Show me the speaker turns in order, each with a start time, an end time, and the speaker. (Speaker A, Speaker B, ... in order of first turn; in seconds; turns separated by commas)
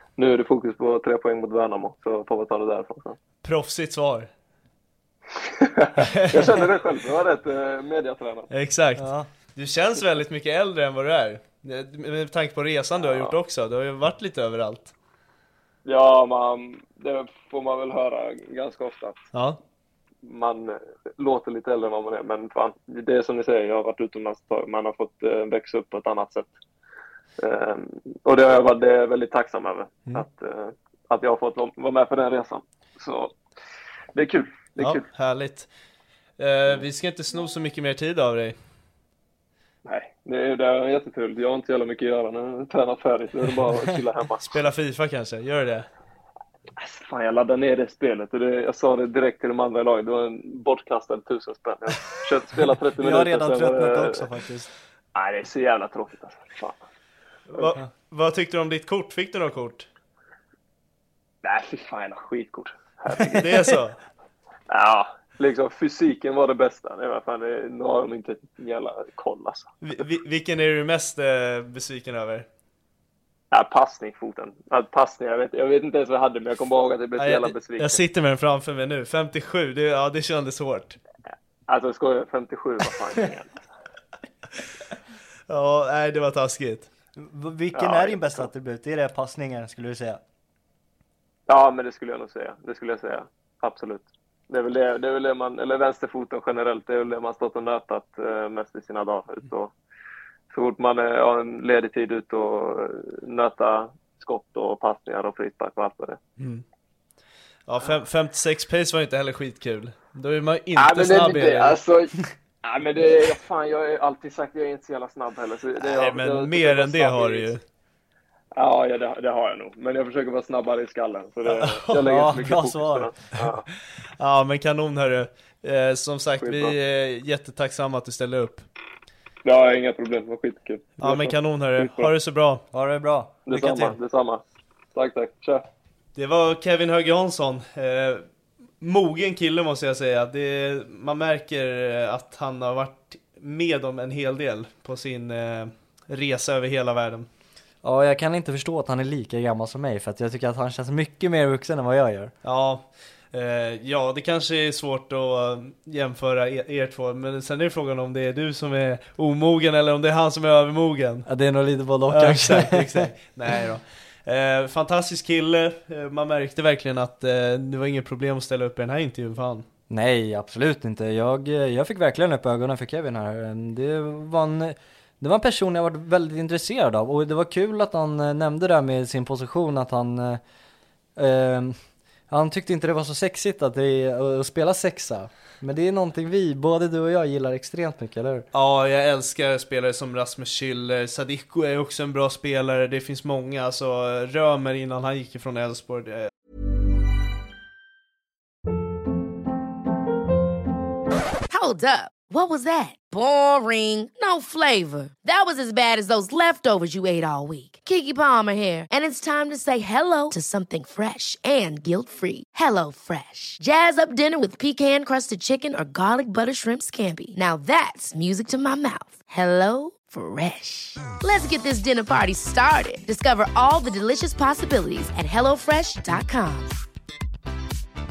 Speaker A: 0.2-3.1, Speaker B: 3.4-4.3, Speaker A: 5.6-8.5, Speaker B: 6.0-6.4, Speaker B: 8.5-14.9, Speaker C: 8.9-9.3, Speaker A: 13.0-13.3, Speaker A: 15.8-19.2, Speaker B: 19.3-19.6, Speaker A: 20.2-26.5, Speaker A: 27.4-33.3, Speaker A: 34.1-35.0, Speaker B: 34.8-35.7, Speaker B: 36.4-38.6, Speaker A: 39.9-44.4, Speaker B: 44.4-45.9, Speaker A: 46.8-54.2, Speaker C: 53.0-54.7, Speaker A: 55.1-56.8, Speaker B: 57.5-59.9, Speaker A: 61.4-63.7, Speaker B: 63.3-64.0, Speaker A: 64.7-69.7, Speaker B: 69.8-72.5, Speaker A: 73.5-78.0, Speaker B: 77.2-81.0, Speaker A: 81.7-83.5, Speaker B: 85.5-86.9, Speaker C: 87.2-90.2, Speaker A: 87.7-88.5, Speaker A: 91.5-99.7, Speaker A: 100.5-106.2, Speaker B: 106.4-106.6, Speaker B: 107.7-111.7, Speaker A: 110.8-112.1, Speaker A: 112.6-117.5, Speaker B: 115.9-117.6, Speaker A: 118.5-123.6, Speaker C: 121.5-123.2, Speaker B: 124.2-128.6, Speaker A: 126.4-126.7, Speaker A: 129.4-132.0, Speaker B: 131.0-132.6, Speaker C: 132.7-134.0, Speaker A: 133.5-134.4, Speaker A: 134.9-135.6, Speaker B: 136.1-138.2, Speaker B: 138.8-147.3, Speaker C: 147.8-152.3, Speaker B: 152.4-161.3, Speaker C: 161.2-163.1, Speaker B: 162.1-169.7, Speaker C: 169.9-180.4, Speaker C: 181.2-181.8, Speaker C: 182.3-188.5, Speaker B: 188.5-196.3, Speaker D: 201.5-226.7